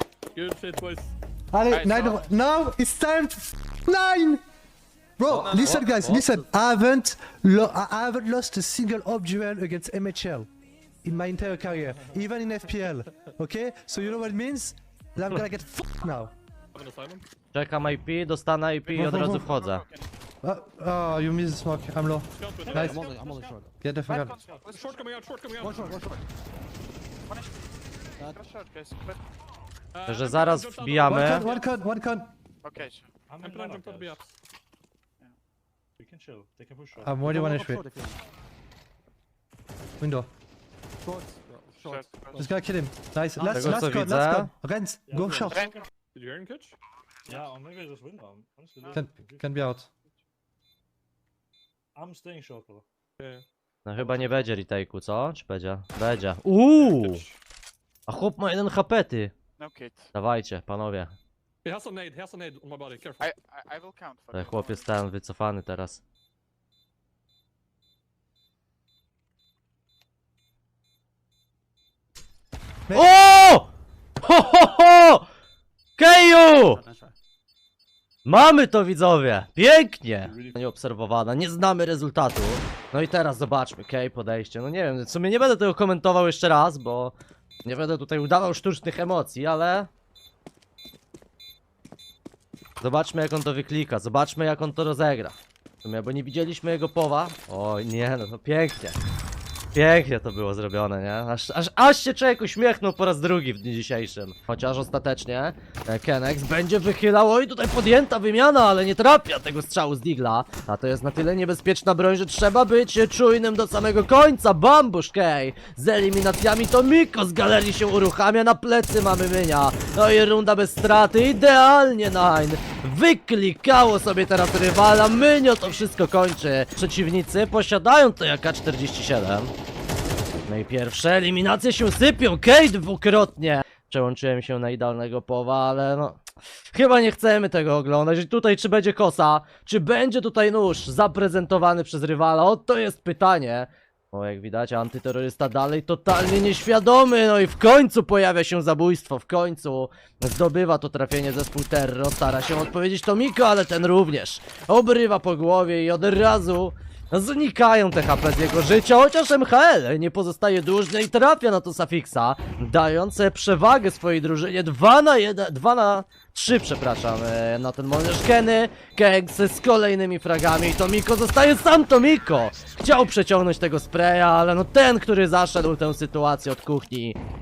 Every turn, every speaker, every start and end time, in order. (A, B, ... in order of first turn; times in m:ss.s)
0:00.3-0:01.1 A
0:01.5-0:04.4 B
0:01.7-0:02.2 C
0:05.2-0:10.5 B
0:05.3-0:06.4 D
0:11.0-0:16.3 B
0:16.7-0:17.2 A
0:17.5-0:19.8 E
0:18.9-0:19.5 B
0:19.0-0:20.1 C
0:20.4-0:23.0 B
0:22.4-0:23.0 A
0:22.6-0:23.7 F
0:22.8-0:23.7 D
0:23.8-0:24.4 B
0:24.1-0:25.1 C
0:24.3-0:24.8 F
0:24.7-0:26.0 A
0:25.6-0:26.2 D
0:27.3-0:27.6 C
0:28.2-0:29.2 C
0:29.9-0:31.6 A
0:30.0-0:31.4 E
0:31.1-0:32.3 B
0:32.6-0:33.1 C
0:33.3-0:34.2 F
0:33.4-0:34.3 A
0:36.0-0:37.5 F
0:37.0-0:37.9 B
0:37.3-0:38.1 D
0:40.0-0:40.3 B
0:41.1-0:42.0 D
0:41.8-0:42.4 C
0:42.4-0:45.7 B
0:43.5-0:44.5 E
0:45.1-0:45.8 F
0:45.5-0:45.8 C
0:46.1-0:46.8 A
0:47.2-0:49.7 F
0:48.9-0:49.9 B
0:51.9-0:52.8 F
0:53.2-0:53.4 A
0:53.8-0:57.2 E
0:53.9-0:54.6 F
0:56.8-0:57.3 A
0:58.1-0:59.3 E
0:59.6-1:00.1 C
1:00.1-1:01.2 E
1:01.6-1:03.3 A
1:03.2-1:04.9 C
1:04.3-1:06.0 E
1:12.9-1:13.7 E
1:14.2-1:15.2 E
1:16.0-1:16.8 E
1:18.2-1:29.9 E
1:20.2-1:20.6 F
1:32.8-1:39.0 E
1:39.7-2:09.5 E
2:10.5-2:57.2 E